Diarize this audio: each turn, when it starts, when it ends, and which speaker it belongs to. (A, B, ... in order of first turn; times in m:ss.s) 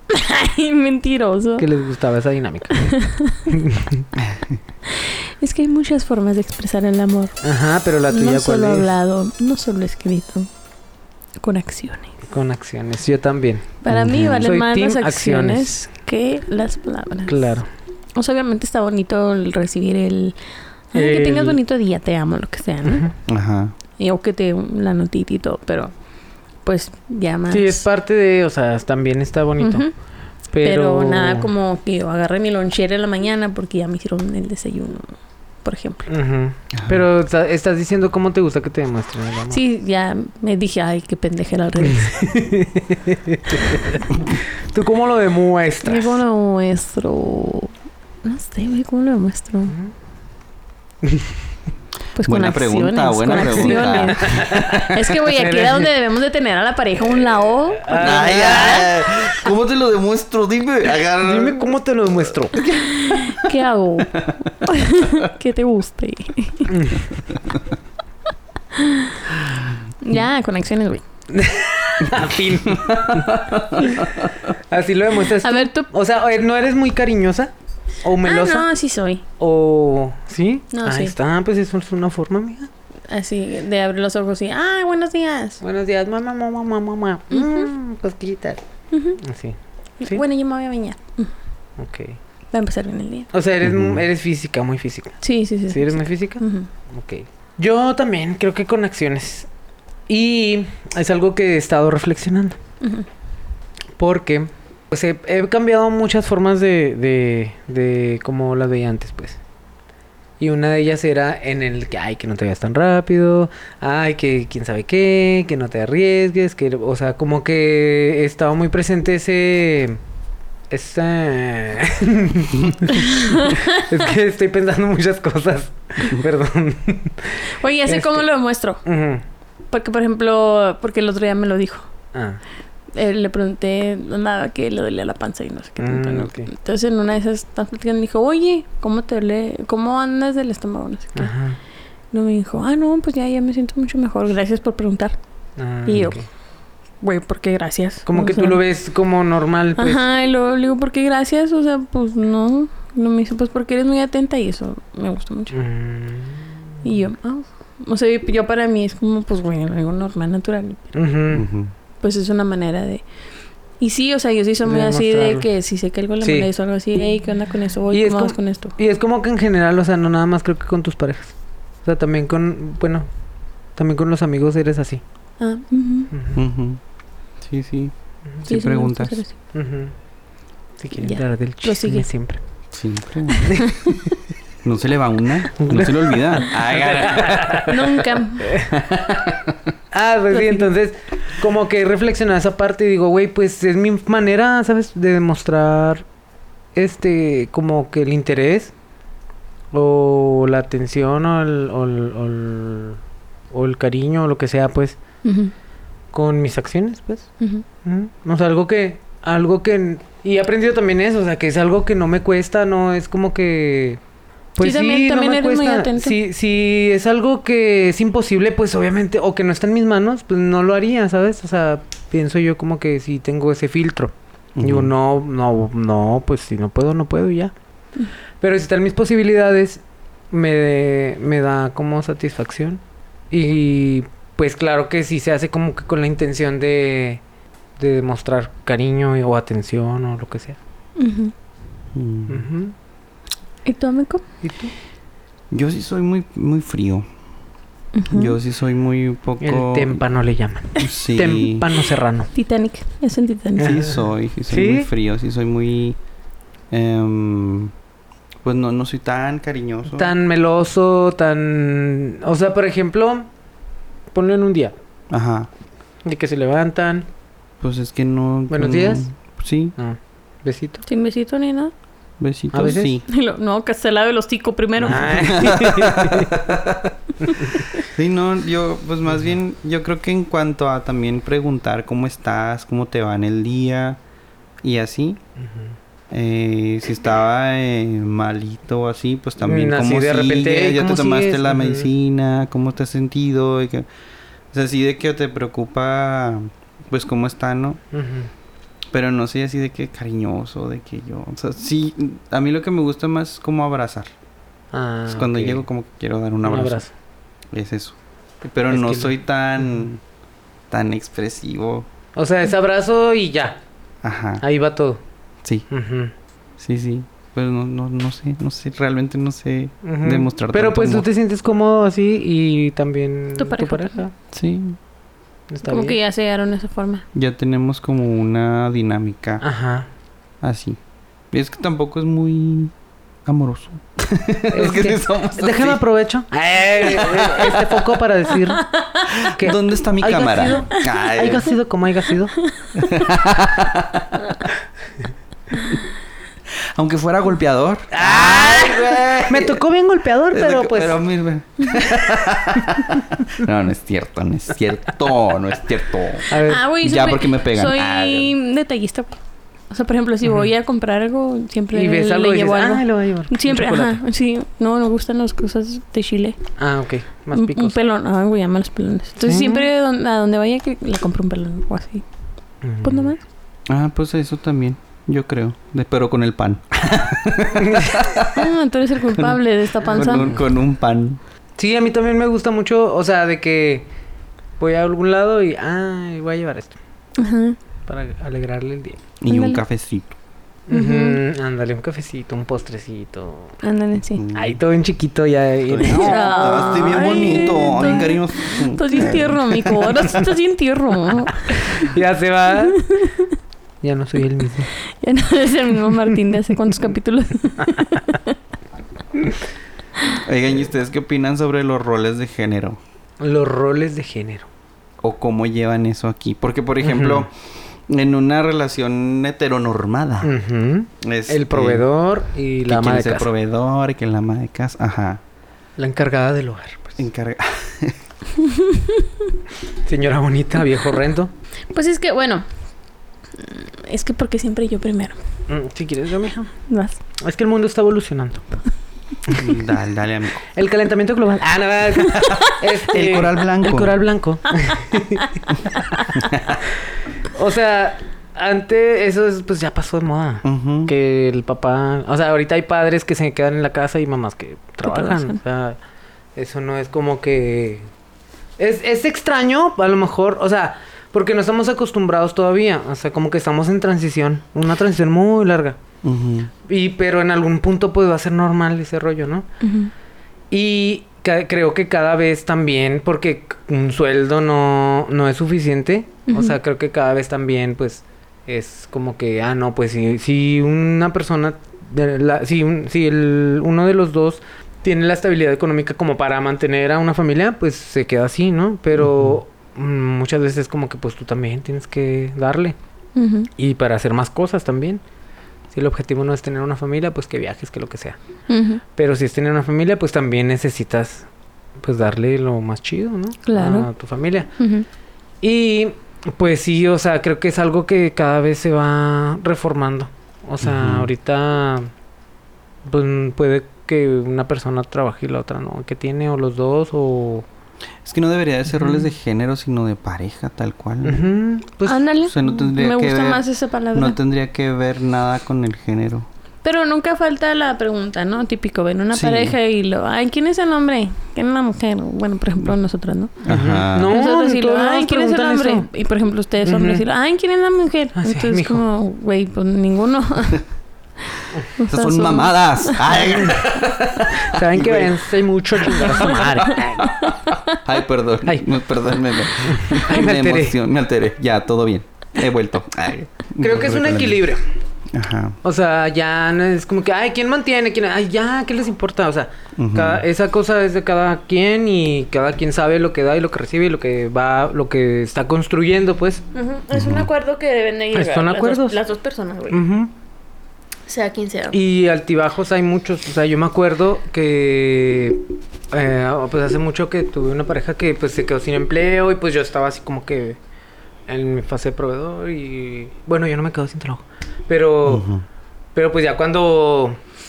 0:00.1-0:01.7 A
0:01.6-0:02.9 B
0:02.8-0:03.5 A
0:03.5-0:04.1 B
0:04.2-0:04.6 C
0:04.9-0:07.4 A
0:07.4-0:08.9 B
0:08.1-0:10.5 A
0:11.4-0:12.1 A
0:12.3-0:15.9 B
0:13.8-0:17.6 A
0:13.9-0:14.5 C
0:17.3-0:17.7 B
0:18.2-0:20.4 A
0:20.9-0:23.1 A
0:21.0-0:21.6 B
0:22.8-0:23.1 B
0:23.3-0:23.7 C
0:24.0-0:25.9 A
0:26.6-0:27.8 A
0:27.5-0:29.9 B
0:29.6-0:29.9 A
0:30.5-0:31.5 B
0:30.6-0:36.1 A
0:36.1-0:39.6 B
0:36.7-0:37.0 C
0:39.5-0:42.4 A
0:41.9-0:44.0 B
0:44.6-0:46.2 B
0:45.8-0:47.7 A
0:48.2-0:49.8 A
0:49.7-0:49.9 B
0:51.0-0:51.3 B
0:52.2-0:58.8 A
0:52.2-0:54.6 C
0:53.4-0:55.9 B
0:57.8-0:58.9 B
0:57.9-1:01.6 C
1:01.2-1:02.7 B
1:02.6-1:03.3 C
1:02.8-1:06.8 A
1:04.2-1:04.5 C
1:06.7-1:07.1 B
1:08.8-1:09.2 A
1:10.0-1:11.0 A
1:11.3-1:13.3 B
1:12.0-1:14.4 C
1:14.7-1:18.7 B
1:15.3-1:15.9 A
1:18.2-1:19.2 A
1:19.4-1:22.7 B
1:20.7-1:21.2 A
1:23.1-1:25.6 A
1:25.6-1:28.6 B
1:27.3-1:27.7 A
1:28.9-1:29.2 A
1:29.2-1:30.2 B
1:30.0-1:31.3 A
1:31.8-1:32.2 B
1:32.5-1:33.3 A
1:33.3-1:39.5 B
1:33.6-1:34.0 C
1:35.2-1:36.7 A
1:40.1-1:42.6 B
1:42.8-1:43.1 A
1:44.0-1:49.4 B
1:50.4-2:00.0 B
2:00.7-2:08.3 B
2:03.0-2:03.8 A
2:07.6-2:08.8 A
2:08.8-2:09.2 B
2:09.7-2:11.9 A
2:12.1-2:12.4 B
2:12.9-2:21.3 A
2:15.8-2:16.5 B
2:21.2-2:21.6 B
2:22.1-2:25.2 A
2:25.6-2:26.2 B
2:25.8-2:26.2 A
2:27.0-2:28.6 A
2:28.1-2:30.0 B
2:29.8-2:35.6 A
2:35.5-2:36.5 B
2:36.8-2:41.0 A
2:41.0-2:41.5 B
2:41.3-2:41.7 C
2:42.0-2:43.0 A
2:43.8-2:48.8 A
2:44.6-2:45.5 B
2:46.2-2:46.5 B
2:47.9-2:53.1 B
2:53.8-2:55.0 B
2:55.4-2:56.1 A
2:56.1-2:56.4 B
2:56.4-2:56.8 C
2:57.4-2:59.2 C
2:58.5-2:59.4 A
2:59.5-3:00.0 B
3:00.8-3:02.4 B
3:01.0-3:02.1 A
3:02.7-3:03.6 C
3:03.5-3:03.9 A
3:04.6-3:08.0 C
3:05.6-3:07.7 B
3:07.1-3:08.5 A
3:08.4-3:08.7 B
3:08.7-3:09.6 C
3:09.9-3:16.1 B
3:10.3-3:10.6 A
3:16.8-3:18.7 B
3:19.7-3:23.0 B
3:23.5-3:25.0 B
3:25.2-3:25.5 A
3:26.1-3:27.3 B
3:27.8-3:34.0 B
3:34.6-3:47.5 B
3:34.6-3:36.2 A
3:44.6-3:44.9 C
3:48.4-3:57.2 B
3:57.8-4:00.6 B
4:01.0-4:01.3 A
4:01.9-4:02.5 C
4:02.3-4:02.7 B
4:03.6-4:04.2 A
4:04.4-4:04.7 B
4:05.5-4:07.1 C
4:08.0-4:08.4 A
4:08.1-4:10.0 C
4:09.4-4:12.3 B
4:10.8-4:11.7 C
4:12.3-4:13.9 A
4:13.6-4:16.0 C
4:14.5-4:14.9 B
4:16.7-4:17.7 C
4:18.4-4:20.1 C
4:19.9-4:23.3 B
4:24.1-4:24.8 B
4:25.1-4:25.5 C
4:26.0-4:27.1 B
4:27.6-4:29.8 C
4:28.5-4:29.1 B
4:29.8-4:30.8 B
4:30.9-4:31.7 A
4:32.2-4:33.0 C
4:32.5-4:32.9 B
4:33.1-4:35.5 A
4:34.8-4:37.0 C
4:34.9-4:36.4 B
4:37.2-4:37.5 B
4:37.9-4:44.0 C
4:44.6-4:45.2 C
4:46.1-4:53.9 C
4:49.4-4:51.9 B
4:54.5-4:57.8 C
4:57.9-4:58.3 B
4:58.9-5:04.1 C
5:04.7-5:05.6 B
5:05.1-5:06.8 C
5:06.4-5:06.9 B
5:07.5-5:10.0 C
5:08.7-5:09.1 B
5:10.7-5:11.9 C
5:12.2-5:13.6 B
5:14.0-5:14.4 C
5:14.4-5:15.0 B
5:15.7-5:16.1 B
5:16.6-5:21.1 C
5:19.8-5:24.1 B
5:23.4-5:24.0 A
5:24.3-5:24.8 C
5:25.5-5:26.0 B
5:25.7-5:27.0 A
5:27.2-5:29.4 C
5:29.4-5:29.9 B
5:30.4-5:30.8 C
5:31.3-5:32.7 C
5:33.2-5:35.8 C
5:34.5-5:38.7 B
5:36.8-5:37.9 C
5:39.2-5:41.6 C
5:39.3-5:42.4 B
5:42.6-5:42.9 A
5:42.8-5:44.2 C
5:46.7-5:49.6 C
5:47.9-5:51.0 B
5:50.3-5:58.3 C
5:56.3-5:56.6 B
5:56.3-5:59.2 A
5:59.7-6:06.5 A
6:01.7-6:04.0 B
6:06.6-6:07.7 B
6:07.3-6:12.0 A
6:09.2-6:09.7 B
6:12.6-6:13.1 B
6:12.8-6:13.2 A
6:13.7-6:18.5 C
6:17.6-6:18.0 B
6:18.3-6:20.3 A
6:19.1-6:21.2 C
6:19.8-6:20.4 B
6:21.6-6:23.9 B
6:24.6-6:26.8 B
6:27.2-6:27.6 A
6:27.9-6:29.0 B
6:29.2-6:30.1 C
6:29.3-6:29.6 A
6:30.7-6:33.6 B
6:30.7-6:31.2 A
6:33.6-6:34.3 A
6:34.2-6:34.6 C
6:34.4-6:37.9 B
6:35.7-6:40.1 C
6:35.9-6:41.9 A
6:41.6-6:42.8 B
6:42.6-6:43.3 A
6:43.8-6:44.7 B
6:45.0-6:48.4 A
6:50.2-6:52.8 C
6:53.2-6:54.5 B
6:55.0-6:57.3 C
6:56.8-6:57.3 B
6:57.9-7:00.3 C
7:00.2-7:03.3 B
7:01.0-7:01.9 C
7:02.7-7:05.2 C
7:05.8-7:07.0 B
7:07.0-7:08.0 C
7:08.6-7:09.0 A
7:09.8-7:11.3 B
7:11.7-7:12.4 A
7:13.4-7:15.2 A
7:15.5-7:16.5 B
7:16.7-7:17.0 A
7:17.2-7:18.5 B
7:19.3-7:20.4 C
7:20.5-7:25.3 B
7:22.8-7:24.0 C
7:27.2-7:35.8 B
7:30.4-7:30.9 C
7:34.8-7:35.4 A
7:36.4-7:37.9 B
7:38.6-7:45.8 B
7:46.0-7:46.5 C
7:46.6-7:49.5 B
7:49.6-7:49.9 A
7:50.5-8:12.8 B
7:56.3-7:56.6 A
8:09.0-8:09.4 C
8:13.2-8:13.5 A
8:13.6-8:15.0 B
8:15.7-8:18.2 B
8:18.5-8:18.8 A
8:18.9-8:24.5 B
8:23.5-8:23.9 A
8:24.6-8:24.9 A
8:25.4-8:31.9 B
8:30.6-8:31.1 C
8:32.9-8:37.5 B
8:38.0-8:41.3 C
8:38.8-8:39.0 B
8:41.0-8:42.0 B
8:41.9-8:44.2 A
8:42.2-8:46.3 C
8:46.6-8:53.4 A
8:49.1-8:49.6 C
8:53.4-8:54.2 C
8:53.5-8:55.9 B
8:54.1-9:00.7 A
8:56.6-8:57.0 B
8:58.2-8:58.8 B
9:01.8-9:03.3 A
9:01.9-9:05.2 C
9:04.4-9:07.2 B
9:06.0-9:14.4 C
9:09.6-9:10.8 B
9:13.6-9:14.6 B
9:15.1-9:15.6 C
9:15.6-9:26.4 B
9:19.8-9:20.2 C
9:26.5-9:29.8 A
9:26.9-9:27.3 C
9:28.1-9:29.0 B
9:29.7-9:30.1 B
9:31.1-9:31.8 A
9:31.7-9:40.6 B
9:41.3-9:45.3 B
9:45.1-9:45.4 C
9:46.0-9:47.2 B